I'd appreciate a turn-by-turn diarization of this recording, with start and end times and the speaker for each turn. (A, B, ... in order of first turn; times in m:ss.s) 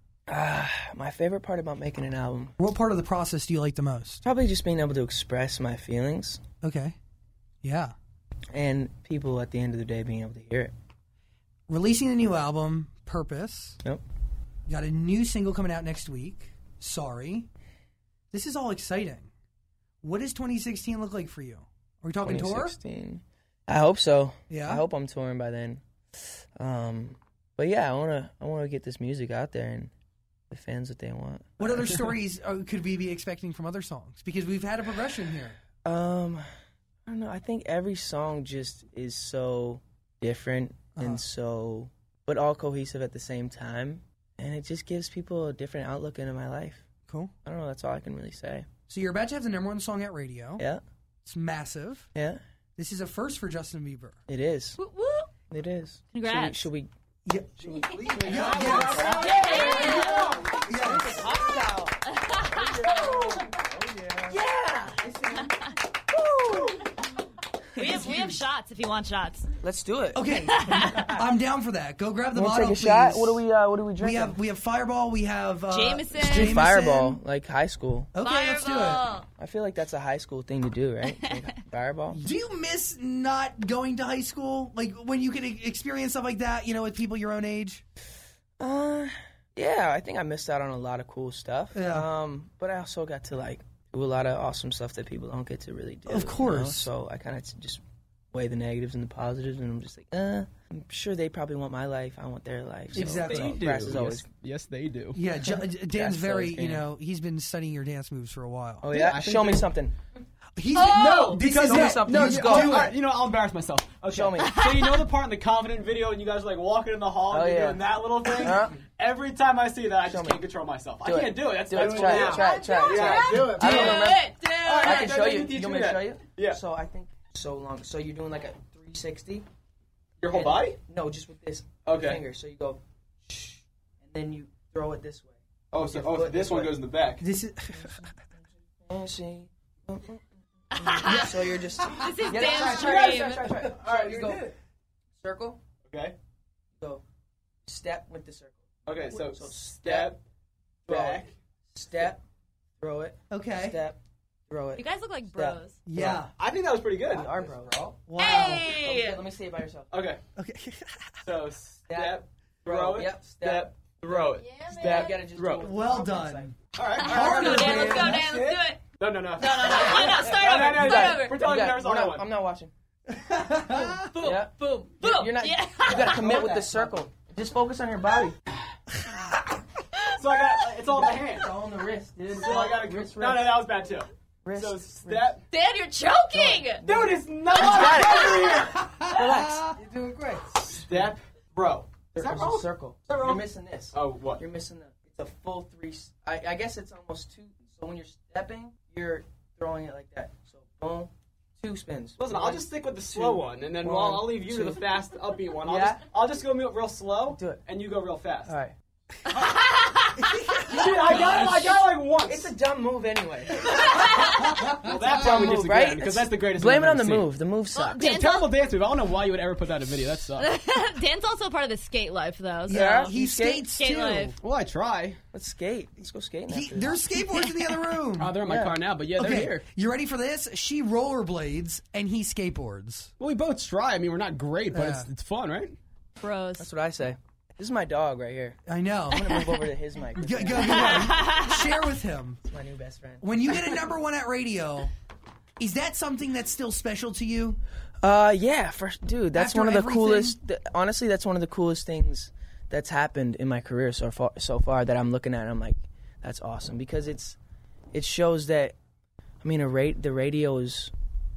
0:00.3-0:02.5 A
0:02.6-0:04.2 B
0:04.2-0:06.4 A
0:06.6-0:07.0 B
0:07.6-0:07.9 B
0:08.5-0:10.7 A
0:11.7-0:13.8 B
0:14.7-0:17.5 B
0:18.3-0:19.3 B
0:20.0-0:22.8 B
0:22.2-0:29.9 A
0:24.5-0:24.8 B
0:30.5-0:31.9 A
0:31.6-0:35.6 B
0:35.8-0:36.4 A
0:37.0-0:46.8 A
0:41.0-0:41.2 B
0:47.1-0:47.3 B
0:47.4-0:48.7 A
0:48.9-0:50.6 B
0:51.2-0:52.1 B
0:52.1-0:52.4 A
0:52.8-0:54.2 B
0:54.3-0:54.8 A
0:54.8-0:55.3 C
0:55.5-0:56.9 A
0:56.1-0:56.7 C
0:57.2-0:59.2 B
0:57.8-1:00.6 D
0:58.2-1:05.5 A
0:59.0-1:03.5 C
1:00.6-1:01.3 B
1:04.8-1:05.7 C
1:06.1-1:06.9 A
1:07.8-1:08.3 A
1:07.8-1:09.5 C
1:09.6-1:11.3 A
1:10.1-1:13.4 B
1:10.5-1:11.1 C
1:12.3-1:14.4 A
1:14.0-1:17.2 B
1:15.7-1:16.6 C
1:16.2-1:18.1 A
1:18.1-1:19.0 B
1:18.2-1:19.2 C
1:19.4-1:22.2 A
1:22.1-1:27.8 B
1:28.6-1:44.2 A
1:31.7-1:32.1 B
1:36.1-1:36.9 B
1:42.9-1:43.6 B
1:43.0-1:45.2 D
1:45.1-1:48.9 B
1:45.8-1:46.8 A
1:48.8-1:50.0 A
1:48.9-1:49.7 D
1:50.6-1:53.0 B
1:50.7-1:51.4 C
1:50.8-2:06.6 D
1:51.4-1:52.9 A
1:54.1-1:54.6 A
1:54.4-1:55.0 C
1:57.3-1:58.7 A
2:00.0-2:00.4 A
2:01.0-2:09.4 A
2:01.8-2:05.2 C
2:10.2-2:10.8 D
2:10.3-2:16.7 A
2:11.8-2:12.2 D
2:15.7-2:17.2 D
2:17.2-2:18.0 B
2:17.8-2:18.1 A
2:18.8-2:24.5 A
2:20.7-2:21.4 C
2:21.0-2:22.5 B
2:22.0-2:23.4 C
2:22.5-2:24.4 D
2:25.2-2:25.6 A
2:25.9-2:26.2 D
2:27.6-2:30.1 A
2:28.9-2:30.2 D
2:30.9-2:32.2 A
2:30.9-2:31.3 D
2:32.8-2:36.2 A
2:33.3-2:33.8 B
2:34.8-2:35.8 C
2:35.8-2:36.3 B
2:36.1-2:37.3 D
2:37.1-2:40.0 A
2:38.0-2:38.7 B
2:38.2-2:39.2 C
2:39.9-2:40.2 D
2:40.4-2:41.2 B
2:41.2-2:45.6 D
2:41.9-2:46.5 A
2:44.4-2:45.2 C
2:45.6-2:48.2 B
2:46.7-2:52.2 D
2:47.0-2:48.8 C
2:49.4-2:51.4 C
2:49.8-2:52.7 A
2:53.1-2:54.1 B
2:53.6-2:56.3 C
2:54.2-2:58.4 A
2:55.9-2:56.8 D
3:00.1-3:01.5 D
3:00.9-3:03.6 A
3:02.3-3:05.4 D
3:04.4-3:05.3 A
3:05.5-3:06.8 C
3:06.3-3:11.1 A
3:06.8-3:08.9 D
3:07.6-3:08.5 C
3:08.7-3:09.8 B
3:10.6-3:13.4 D
3:12.1-3:24.8 A
3:13.9-3:14.4 D
3:22.2-3:28.5 D
3:25.6-3:26.0 A
3:27.3-3:27.6 A
3:28.4-3:28.7 A
3:29.3-3:29.6 D
3:29.4-3:30.1 C
3:30.2-3:30.7 B
3:30.6-3:32.5 D
3:30.7-3:34.1 A
3:33.8-3:34.5 C
3:34.5-3:34.9 B
3:34.7-3:37.3 D
3:34.8-3:38.1 A
3:37.7-3:38.5 C
3:38.0-3:40.5 D
3:40.4-3:43.1 C
3:42.7-3:44.3 B
3:42.7-3:43.7 A
3:43.7-3:44.3 C
3:44.4-3:45.2 D
3:45.3-3:47.0 A
3:46.5-3:48.4 B
3:48.1-3:49.6 D
3:48.4-3:48.8 A
3:49.2-3:53.1 B
3:53.2-3:55.8 D
3:54.7-3:55.1 B
3:56.2-3:56.7 C
3:56.6-4:01.3 A
3:58.7-3:59.4 B
4:00.2-4:02.4 B
4:00.8-4:01.6 C
4:02.4-4:03.5 A
4:03.2-4:04.9 B
4:05.6-4:07.6 B
4:08.0-4:17.4 A
4:09.3-4:10.4 B
4:17.9-4:18.8 A
4:19.4-4:20.9 A